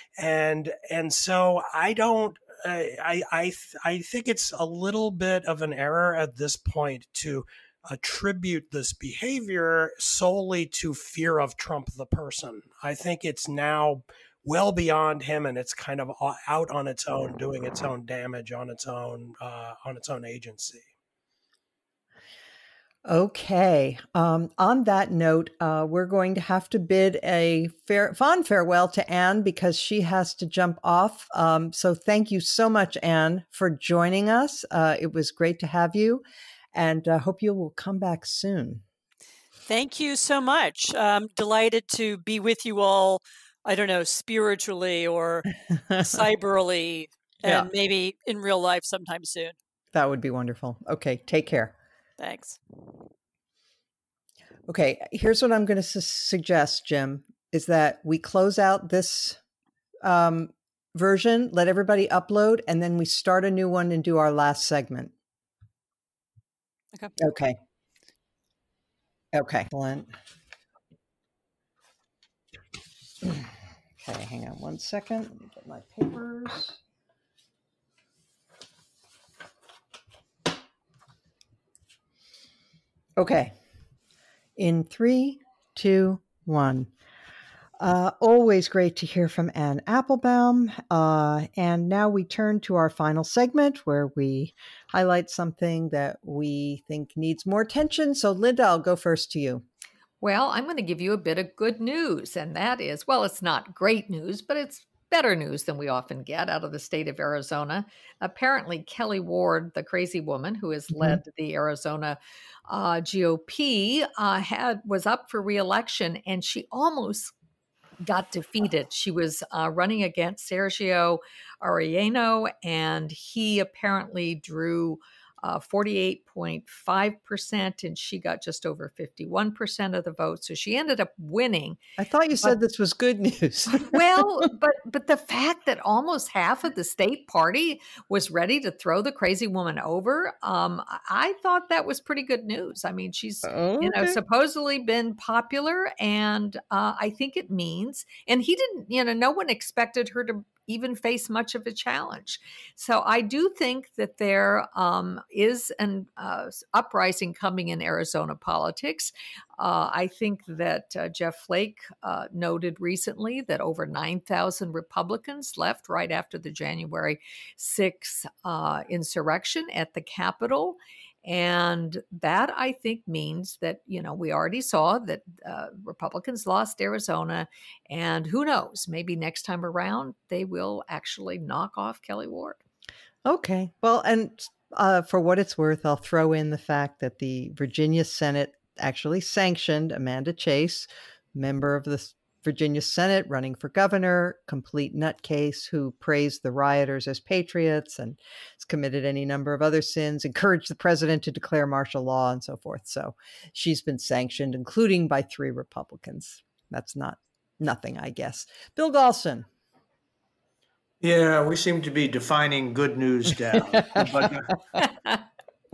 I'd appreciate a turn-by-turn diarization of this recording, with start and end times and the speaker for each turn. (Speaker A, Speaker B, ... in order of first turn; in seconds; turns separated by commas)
Speaker A: 0.2-20.9, Speaker B: 23.1-36.2, Speaker B: 36.7-38.8, Speaker C: 39.7-49.5, Speaker B: 49.9-51.7, Speaker C: 52.2-52.6, Speaker B: 54.7-59.4, Speaker B: 60.0-65.1, Speaker B: 67.2-67.6, Speaker B: 69.3-70.1, Speaker B: 73.2-73.5, Speaker B: 74.0-76.8, Speaker B: 83.2-83.5, Speaker B: 84.6-86.9, Speaker B: 87.8-99.6, Speaker D: 100.2-117.3, Speaker D: 118.0-131.8, Speaker B: 132.0-134.2, Speaker D: 133.7-182.6, Speaker B: 143.4-144.2, Speaker B: 183.2-209.5, Speaker E: 211.0-214.9, Speaker B: 213.8-214.1